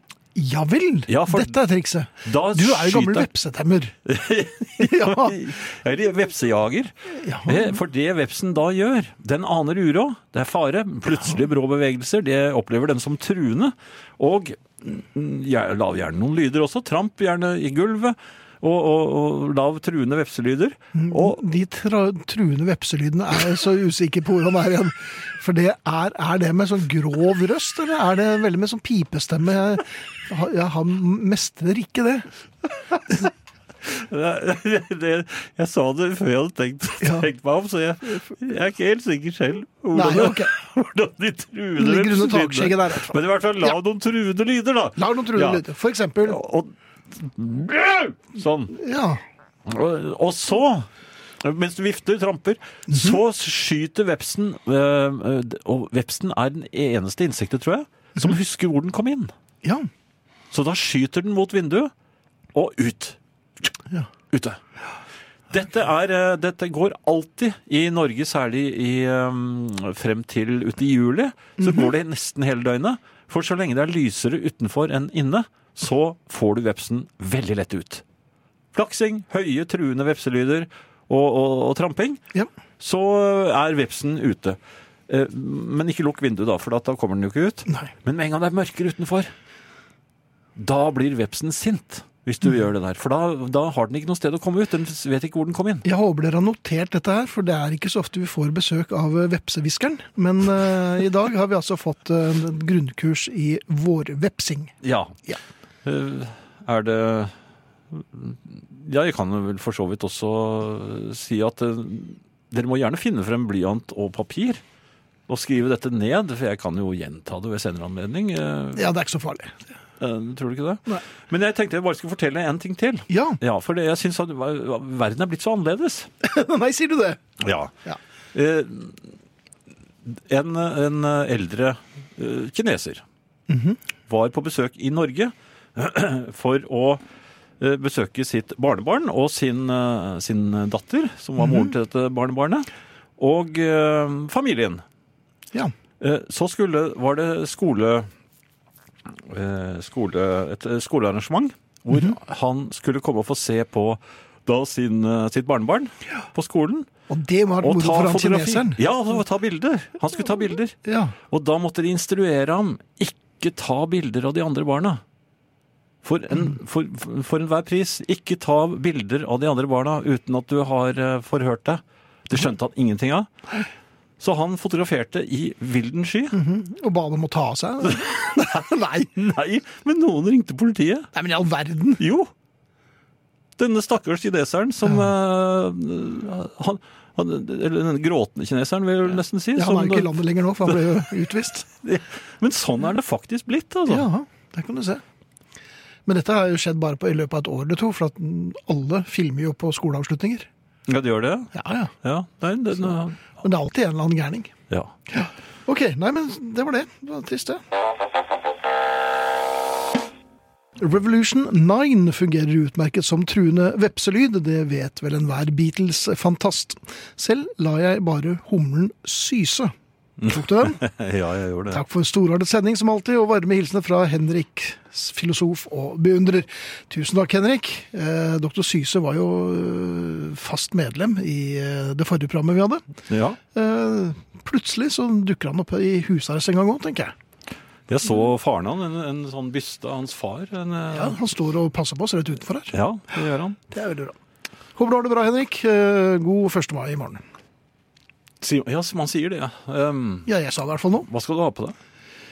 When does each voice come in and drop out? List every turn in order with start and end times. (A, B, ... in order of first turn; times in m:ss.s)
0:00.3-0:03.9 A
0:01.1-0:01.6 B
0:02.2-0:03.3 B
0:04.0-0:06.9 B
0:04.8-0:05.4 A
0:07.1-0:07.8 A
0:07.4-0:21.4 B
0:20.9-0:32.3 A
0:33.8-0:45.6 B
0:37.0-0:37.3 A
0:39.9-0:40.5 A
0:41.8-0:43.7 A
0:45.0-0:46.4 A
0:46.2-0:48.7 B
0:48.7-0:49.2 A
0:49.6-0:50.9 B
0:51.4-0:59.3 B
0:52.9-0:53.2 A
0:59.6-0:59.9 A
1:00.5-1:01.9 B
1:02.5-1:03.2 B
1:04.3-1:04.6 B
1:05.5-1:18.0 B
1:11.6-1:11.9 A
1:18.7-1:22.2 B
1:22.8-1:29.3 B
1:30.6-1:35.9 B
1:35.8-1:44.7 A
1:44.8-1:45.1 B
1:45.8-1:47.3 B
1:47.9-1:54.6 B
1:55.3-1:58.9 B
1:58.7-1:59.6 A
2:00.0-2:06.1 B
2:03.1-2:03.4 A
2:06.2-2:07.2 A
2:07.4-2:07.7 B
2:08.3-2:09.1 B
2:10.0-2:13.0 B
2:13.5-2:13.8 A
2:14.1-2:17.0 B
2:17.6-2:24.8 B
2:21.4-2:21.7 A
2:26.0-2:28.1 B
2:29.2-2:36.9 B
2:31.9-2:32.2 A
2:37.1-2:38.8 A
2:37.6-2:40.8 B
2:40.8-2:41.2 A
2:41.3-2:45.0 B
2:46.0-2:53.3 B
2:54.2-2:56.4 B
2:56.3-2:59.1 A
2:57.8-3:01.1 B
3:01.1-3:02.0 A
3:02.0-3:02.3 B
3:03.6-3:10.1 B
3:04.8-3:05.1 A
3:09.5-3:11.6 A
3:10.6-3:11.1 B
3:11.7-3:14.1 B
3:13.9-3:15.0 A
3:16.0-3:20.5 A
3:20.9-3:23.4 B
3:21.5-3:21.9 A
3:23.4-3:24.5 A
3:25.1-3:27.6 A
3:30.8-3:40.8 A
3:40.2-3:41.8 B
3:41.7-3:52.8 A
3:53.1-3:53.4 B
3:53.5-3:57.1 A
3:57.9-4:01.2 B
4:00.9-4:02.7 A
4:02.7-4:03.6 B
4:03.7-4:04.2 A
4:04.8-4:07.2 A
4:08.4-4:10.3 B
4:10.2-4:11.1 A
4:11.1-4:11.7 B